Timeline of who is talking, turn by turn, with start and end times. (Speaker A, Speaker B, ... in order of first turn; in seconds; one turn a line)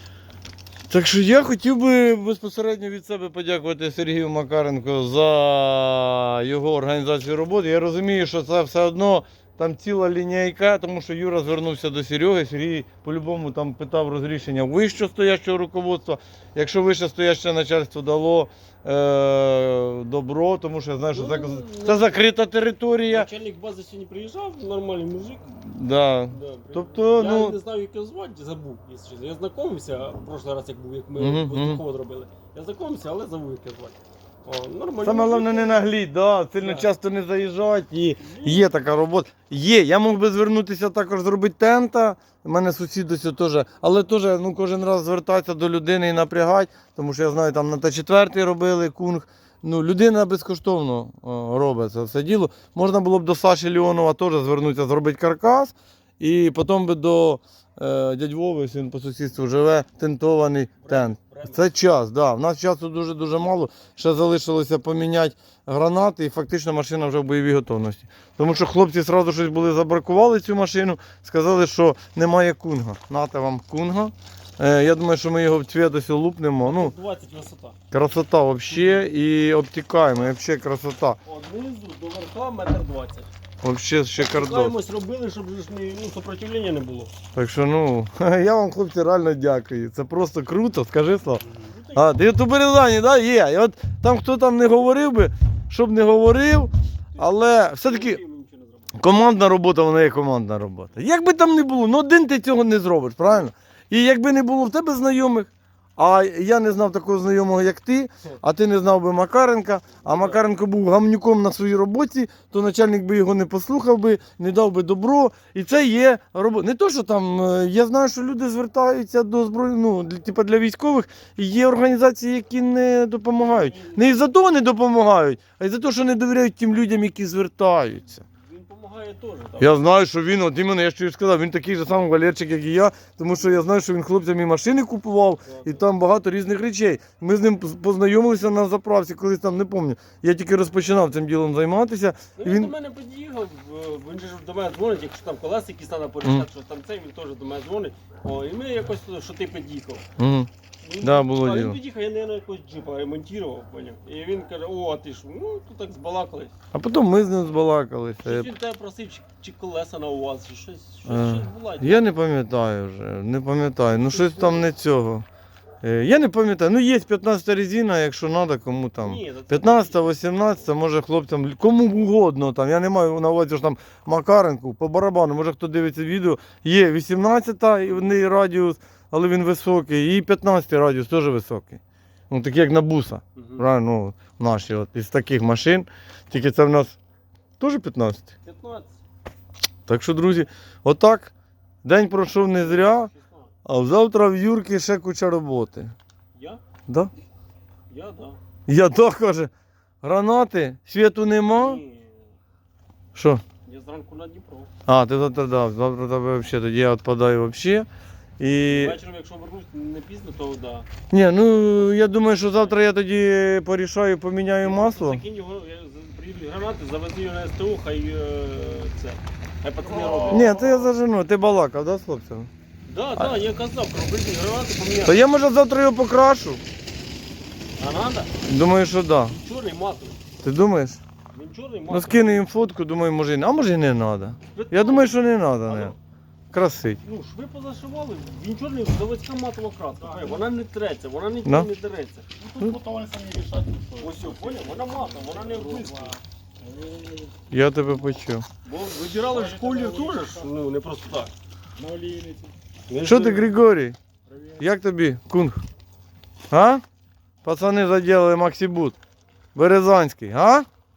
Speaker A: 0.9-23.3
Speaker B: 21.1-22.2
Speaker B: 23.0-25.5
Speaker A: 25.5-27.6
Speaker B: 26.3-35.8
Speaker A: 31.2-31.8
Speaker A: 35.0-76.9
Speaker B: 36.6-36.9
Speaker B: 38.2-38.7
Speaker B: 60.8-61.7
Speaker B: 76.6-77.8
Speaker A: 77.9-81.2
Speaker B: 78.7-79.0
Speaker B: 81.2-83.3
Speaker A: 83.6-84.7
Speaker B: 84.2-87.1
Speaker A: 87.3-98.2
Speaker B: 91.5-92.2
Speaker B: 97.1-99.0
Speaker A: 98.9-128.2
Speaker B: 110.0-110.5
Speaker B: 123.3-124.1
Speaker B: 128.2-129.7
Speaker A: 129.6-142.7
Speaker B: 135.4-135.8
Speaker B: 142.4-150.0
Speaker A: 150.2-150.5
Speaker B: 150.8-156.5
Speaker A: 151.0-151.8
Speaker A: 156.7-158.5
Speaker B: 158.2-162.1
Speaker A: 161.1-165.2
Speaker B: 163.9-164.7
Speaker A: 165.8-187.0
Speaker B: 169.0-170.7
Speaker B: 183.3-183.6
Speaker A: 187.6-188.3
Speaker B: 188.4-189.0
Speaker A: 189.9-191.3
Speaker A: 191.8-193.1
Speaker B: 192.5-193.5
Speaker A: 193.6-195.9
Speaker B: 196.3-196.6
Speaker B: 197.9-198.4
Speaker A: 198.7-199.5
Speaker A: 200.0-201.8
Speaker B: 201.6-202.3
Speaker A: 203.1-203.4
Speaker B: 203.6-204.7
Speaker A: 204.8-207.9
Speaker A: 208.4-209.0
Speaker B: 208.6-210.9
Speaker A: 211.1-215.2
Speaker B: 214.6-220.6
Speaker C: 219.8-220.9
Speaker A: 220.3-222.5
Speaker B: 222.8-225.2
Speaker A: 225.0-226.6
Speaker B: 227.8-228.3
Speaker A: 228.4-229.3
Speaker B: 229.2-230.2
Speaker A: 230.4-231.0
Speaker B: 231.3-232.4
Speaker A: 231.9-235.9
Speaker B: 234.5-235.9
Speaker A: 236.5-237.0
Speaker B: 237.0-242.2
Speaker C: 240.0-240.5
Speaker C: 242.3-247.4
Speaker B: 244.0-246.2
Speaker A: 247.5-248.4
Speaker B: 248.6-251.3
Speaker C: 249.2-250.5
Speaker C: 251.8-252.5
Speaker B: 252.9-253.5
Speaker A: 253.0-254.0
Speaker C: 254.2-254.7
Speaker A: 254.6-255.6
Speaker A: 256.5-256.8
Speaker A: 257.4-258.9
Speaker A: 259.5-260.7